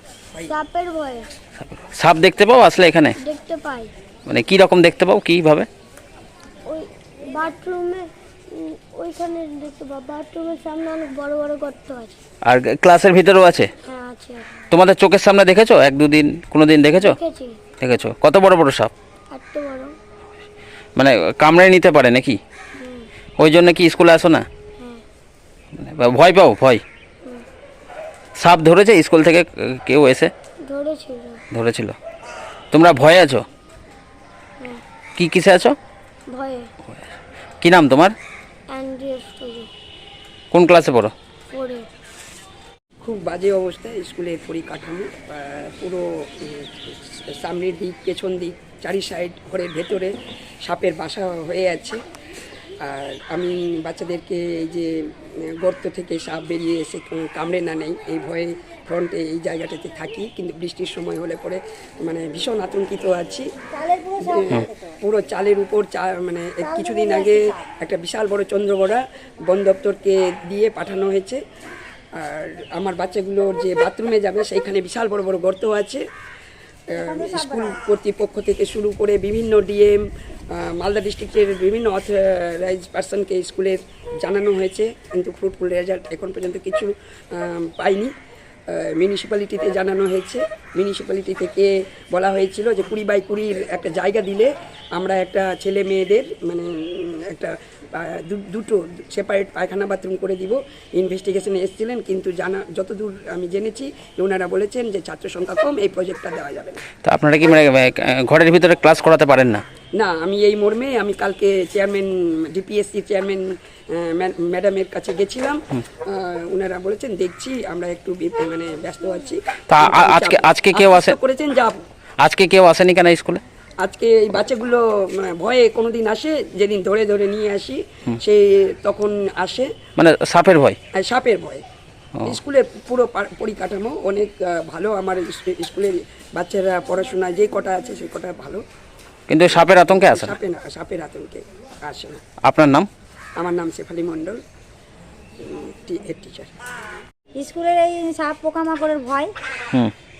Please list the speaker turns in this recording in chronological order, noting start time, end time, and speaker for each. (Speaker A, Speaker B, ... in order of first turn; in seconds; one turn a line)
Speaker A: 0.5-1.2
Speaker B: 1.6-3.1
Speaker A: 3.2-3.9
Speaker B: 4.3-5.7
Speaker A: 6.7-12.2
Speaker B: 12.5-13.7
Speaker A: 13.8-14.7
Speaker B: 14.7-17.1
Speaker A: 16.9-17.6
Speaker B: 17.8-18.9
Speaker A: 19.3-19.9
Speaker B: 21.0-22.4
Speaker A: 22.8-23.1
Speaker B: 23.4-24.4
Speaker B: 25.7-26.8
Speaker B: 28.4-30.3
Speaker A: 30.6-31.4
Speaker B: 31.5-31.9
Speaker B: 32.7-33.4
Speaker B: 35.2-35.8
Speaker A: 36.3-36.7
Speaker B: 37.6-38.1
Speaker A: 38.7-39.7
Speaker B: 40.5-41.1
Speaker A: 41.5-41.9
Speaker C: 43.0-52.0
Speaker C: 52.8-63.5
Speaker D: 63.7-65.0
Speaker C: 64.2-71.4
Speaker D: 66.6-67.7
Speaker C: 72.2-76.0
Speaker C: 76.9-80.0
Speaker D: 77.0-77.8
Speaker C: 80.5-88.1
Speaker C: 88.7-106.8
Speaker B: 107.0-109.6
Speaker C: 110.0-121.7
Speaker B: 119.7-121.1
Speaker B: 122.2-123.4
Speaker C: 123.8-129.7
Speaker B: 130.0-130.8
Speaker C: 130.9-131.6
Speaker C: 132.2-138.6
Speaker B: 139.3-140.3
Speaker C: 139.4-142.2
Speaker B: 142.4-142.9
Speaker C: 143.4-144.4
Speaker C: 145.4-146.5
Speaker D: 147.4-149.3